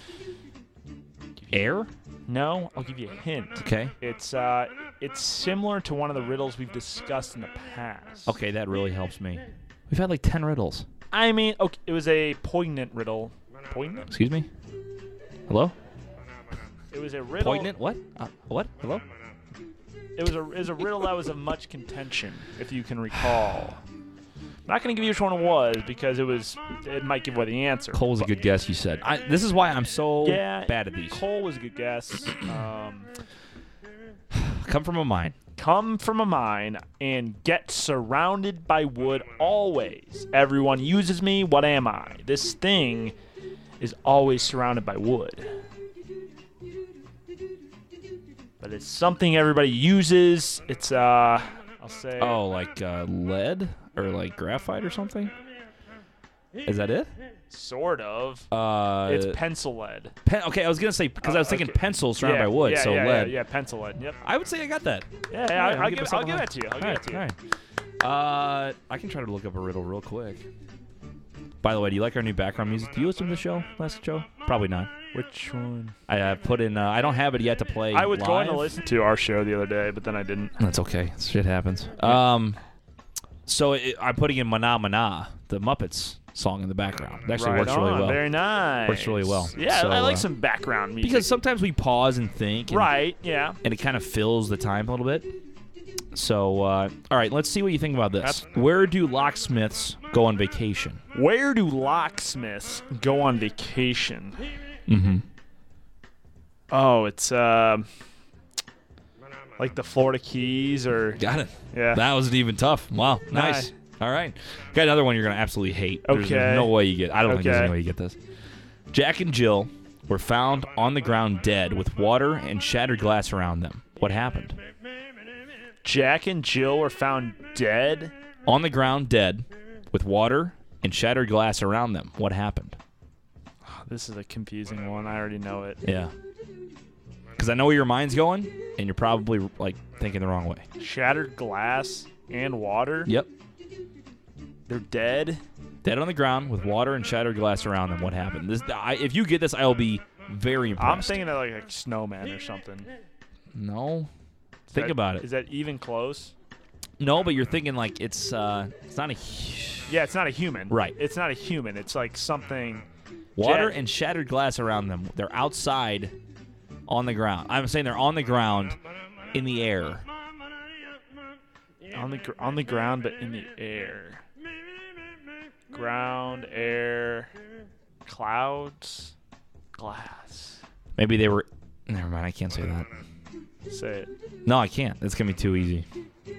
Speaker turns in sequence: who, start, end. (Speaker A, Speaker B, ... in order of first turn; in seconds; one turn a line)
Speaker A: 1.5-1.9
Speaker B: 2.3-8.3
Speaker A: 3.6-3.9
Speaker A: 8.3-10.9
Speaker B: 11.1-14.1
Speaker A: 14.1-14.5
Speaker A: 15.5-15.8
Speaker B: 16.9-17.7
Speaker A: 17.4-19.1
Speaker B: 20.2-23.8
Speaker B: 24.7-28.3
Speaker A: 27.9-31.2
Speaker B: 30.2-33.1
Speaker A: 34.3-35.4
Speaker B: 35.6-43.1
Speaker B: 43.8-45.5
Speaker B: 48.6-52.4
Speaker A: 52.2-55.3
Speaker A: 56.6-57.1
Speaker B: 57.5-58.5
Speaker A: 58.5-59.4
Speaker B: 59.0-60.1
Speaker A: 60.2-63.4
Speaker B: 61.2-64.2
Speaker A: 64.2-67.4
Speaker B: 65.3-67.2
Speaker A: 68.0-70.5
Speaker A: 71.6-74.9
Speaker B: 75.1-76.0
Speaker A: 76.1-78.7
Speaker B: 77.9-80.5
Speaker A: 80.6-82.6
Speaker A: 83.5-88.2
Speaker B: 87.3-91.3
Speaker A: 88.9-90.3
Speaker A: 91.0-92.9
Speaker B: 92.7-93.6
Speaker A: 93.6-95.3
Speaker A: 96.1-101.0
Speaker B: 101.1-104.4
Speaker A: 104.9-105.2
Speaker B: 106.7-107.9
Speaker B: 109.6-111.2
Speaker A: 111.2-118.2
Speaker B: 111.7-112.0
Speaker B: 113.3-113.7
Speaker B: 116.1-117.7
Speaker A: 118.9-124.6
Speaker B: 125.8-128.1
Speaker A: 128.5-132.8
Speaker B: 133.7-135.8
Speaker A: 135.8-136.1
Speaker A: 137.4-140.7
Speaker B: 140.8-143.1
Speaker B: 144.7-145.4
Speaker A: 145.8-151.2
Speaker B: 150.8-152.9
Speaker A: 153.5-154.1
Speaker B: 154.7-156.3
Speaker A: 154.7-155.3
Speaker A: 157.0-159.9
Speaker B: 159.9-162.9
Speaker A: 160.7-161.0
Speaker A: 163.4-166.2
Speaker B: 163.4-163.8
Speaker A: 166.9-168.8
Speaker A: 169.3-170.1
Speaker B: 171.9-174.2
Speaker B: 175.7-177.3
Speaker B: 178.1-179.1
Speaker B: 179.8-180.6
Speaker A: 181.0-182.9
Speaker B: 183.7-184.1
Speaker A: 184.4-185.9